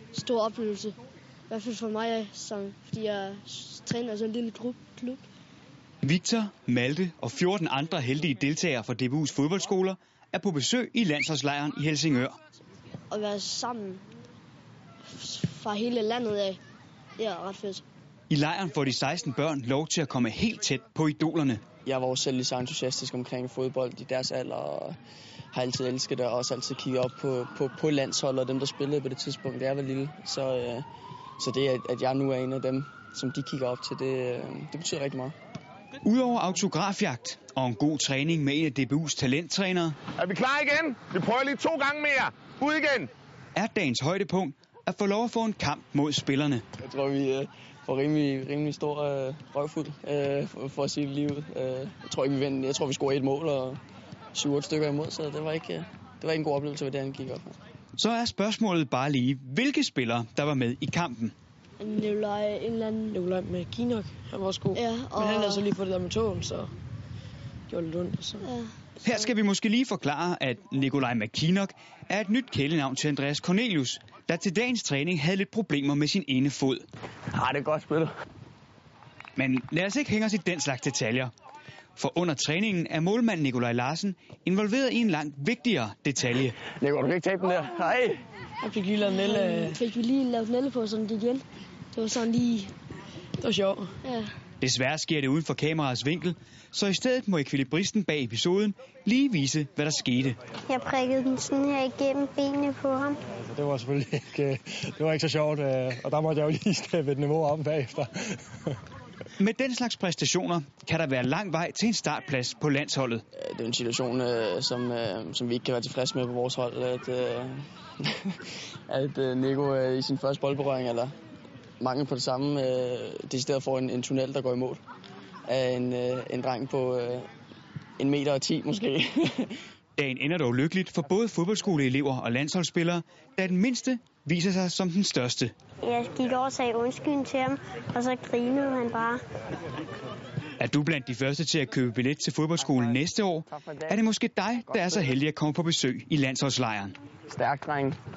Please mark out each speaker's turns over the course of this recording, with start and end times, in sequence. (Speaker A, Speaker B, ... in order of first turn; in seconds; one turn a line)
Speaker A: 0.1-0.9
Speaker A: 1.5-5.2
Speaker B: 6.0-12.4
Speaker A: 13.1-14.0
Speaker A: 15.0-16.6
Speaker A: 17.2-17.8
Speaker B: 18.3-21.6
Speaker C: 21.8-24.9
Speaker C: 25.5-30.8
Speaker C: 31.4-35.3
Speaker B: 36.0-40.0
Speaker D: 40.2-43.1
Speaker B: 43.5-46.6
Speaker C: 46.8-53.8
Speaker C: 54.3-57.6
Speaker B: 58.0-61.3
Speaker A: 61.8-63.1
Speaker E: 63.1-66.7
Speaker A: 64.7-65.7
Speaker E: 67.7-68.5
Speaker A: 68.4-68.7
Speaker B: 69.0-76.8
Speaker C: 77.3-78.1
Speaker B: 79.3-81.3
Speaker B: 82.0-86.6
Speaker C: 86.7-88.2
Speaker E: 88.6-89.8
Speaker A: 89.0-92.7
Speaker E: 93.4-93.9
Speaker A: 94.0-94.3
Speaker B: 94.6-100.4
Speaker F: 100.7-103.2
Speaker G: 103.3-108.4
Speaker B: 109.4-113.2
Speaker C: 113.3-121.1
Speaker C: 121.8-124.8
Speaker C: 125.5-127.3
Speaker C: 128.0-129.6
Speaker B: 130.0-135.5
Speaker F: 135.8-139.2
Speaker B: 140.6-146.9
Speaker C: 142.8-144.0
Speaker C: 147.2-148.0